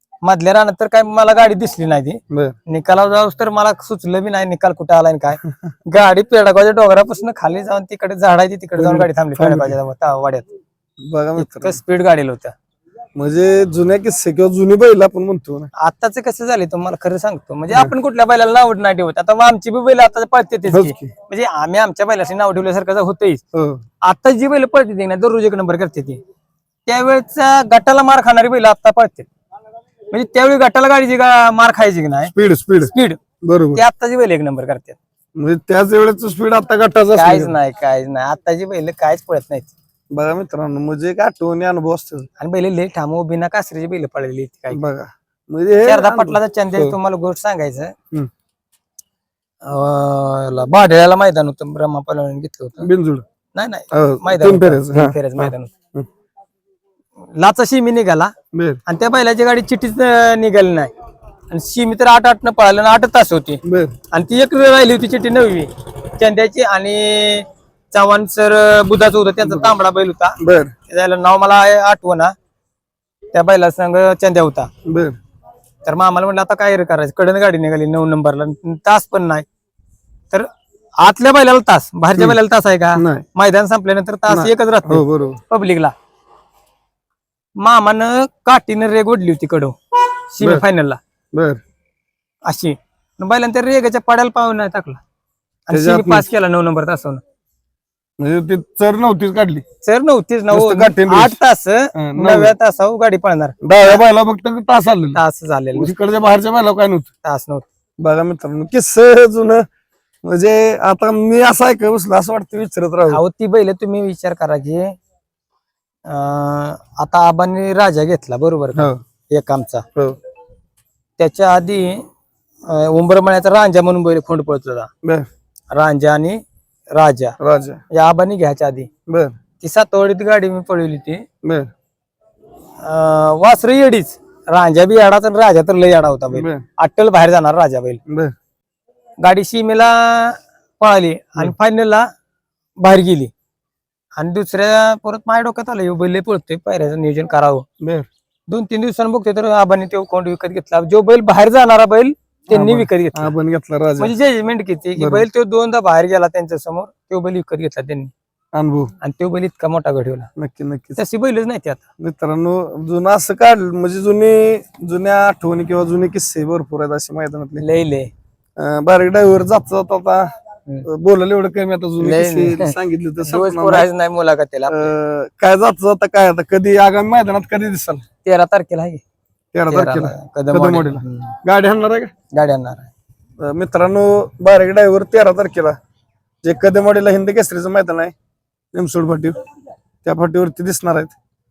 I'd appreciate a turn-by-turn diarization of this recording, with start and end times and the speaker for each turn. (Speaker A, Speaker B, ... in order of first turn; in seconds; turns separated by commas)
Speaker A: 0.2-10.5, Speaker B: 8.8-9.8, Speaker B: 11.0-11.8, Speaker A: 11.4-12.5, Speaker B: 13.2-15.7, Speaker A: 15.8-23.4, Speaker B: 20.7-21.1, Speaker B: 23.5-23.8, Speaker A: 24.0-26.2, Speaker A: 26.9-29.3, Speaker A: 30.1-33.2, Speaker B: 32.3-32.9, Speaker B: 33.4-33.8, Speaker A: 33.7-35.0, Speaker B: 35.4-37.5, Speaker A: 37.1-39.7, Speaker B: 40.1-42.3, Speaker A: 42.4-44.8, Speaker B: 44.7-47.0, Speaker A: 45.9-47.9, Speaker A: 49.6-52.9, Speaker B: 52.8-53.2, Speaker A: 53.5-55.7, Speaker B: 53.9-56.1, Speaker A: 57.4-58.3, Speaker B: 58.5-58.8, Speaker A: 58.9-60.9, Speaker A: 61.5-63.6, Speaker B: 63.6-63.9, Speaker A: 64.1-72.3, Speaker B: 69.4-69.8, Speaker B: 70.4-70.7, Speaker A: 73.3-74.7, Speaker B: 74.8-75.2, Speaker A: 75.8-79.5, Speaker A: 81.0-85.9, Speaker B: 83.0-83.2, Speaker B: 84.3-85.4, Speaker A: 87.6-89.8, Speaker A: 90.3-91.0, Speaker B: 91.3-91.6, Speaker A: 92.5-95.0, Speaker A: 95.7-97.2, Speaker B: 95.7-96.2, Speaker B: 98.2-99.6, Speaker A: 99.8-104.0, Speaker B: 100.5-101.4, Speaker B: 102.0-102.5, Speaker B: 103.6-105.2, Speaker A: 105.1-105.9, Speaker B: 105.8-107.1, Speaker A: 107.2-107.7, Speaker B: 108.0-109.7, Speaker B: 110.2-113.2, Speaker A: 113.1-114.9, Speaker A: 116.1-119.8, Speaker B: 118.8-119.0, Speaker A: 121.2-122.0, Speaker A: 122.7-124.9, Speaker A: 125.7-126.4, Speaker A: 127.0-127.4, Speaker B: 127.4-127.8, Speaker A: 127.9-128.9, Speaker B: 129.1-129.3, Speaker A: 129.6-131.2, Speaker B: 131.4-131.7, Speaker A: 132.8-138.0, Speaker B: 136.3-136.6, Speaker B: 138.1-138.3, Speaker A: 139.2-142.1, Speaker A: 142.8-143.3, Speaker A: 144.2-147.7, Speaker B: 147.8-148.1, Speaker A: 148.5-153.3, Speaker B: 152.5-154.1, Speaker A: 154.0-158.1, Speaker B: 155.0-155.3, Speaker B: 158.5-158.9, Speaker A: 159.0-160.3, Speaker B: 160.4-161.0, Speaker A: 161.0-161.8, Speaker B: 162.0-167.6, Speaker A: 167.6-168.1, Speaker B: 168.6-170.3, Speaker B: 170.9-173.9, Speaker A: 172.0-174.9, Speaker B: 174.7-178.1, Speaker A: 178.2-179.0, Speaker B: 179.5-182.1, Speaker A: 179.7-181.3, Speaker A: 182.3-182.9, Speaker B: 183.4-185.8, Speaker B: 186.4-188.1, Speaker B: 188.7-189.4, Speaker B: 190.0-191.2